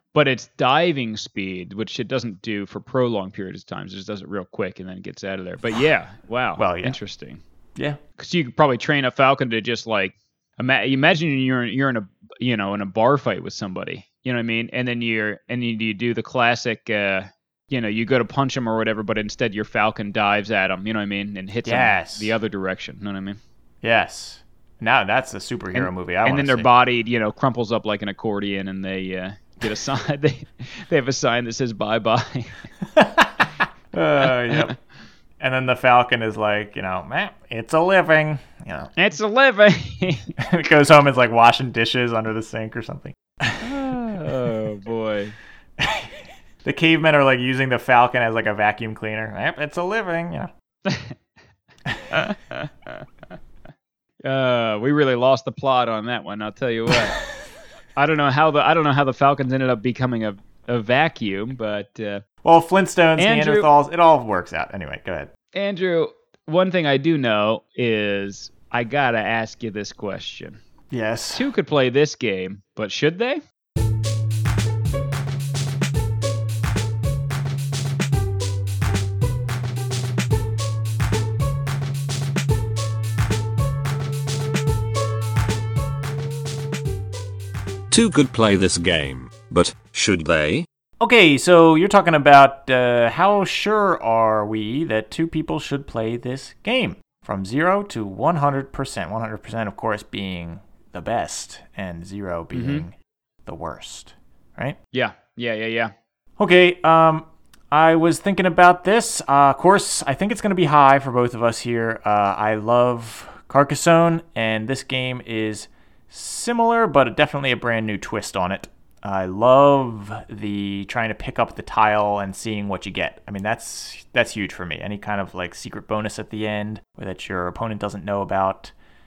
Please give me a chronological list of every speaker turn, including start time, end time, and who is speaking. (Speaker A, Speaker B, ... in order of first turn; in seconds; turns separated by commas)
Speaker A: 0.1-7.4, Speaker B: 6.6-7.0, Speaker A: 8.2-23.4, Speaker B: 21.6-22.4, Speaker B: 23.8-26.7, Speaker A: 25.7-32.6, Speaker B: 32.9-34.7, Speaker A: 34.2-34.7, Speaker B: 35.4-38.9, Speaker A: 39.0-40.3, Speaker B: 40.4-43.9, Speaker A: 43.6-45.4, Speaker B: 45.8-50.5, Speaker A: 50.9-51.1, Speaker B: 51.9-52.2, Speaker A: 52.1-53.0, Speaker A: 54.2-57.2, Speaker A: 58.0-62.2, Speaker B: 62.4-65.3, Speaker A: 63.2-63.7, Speaker A: 65.5-70.6, Speaker B: 70.9-71.5, Speaker A: 71.3-73.4, Speaker C: 87.9-90.7, Speaker B: 91.0-104.8, Speaker A: 102.5-102.8, Speaker A: 104.9-105.9, Speaker B: 106.4-128.7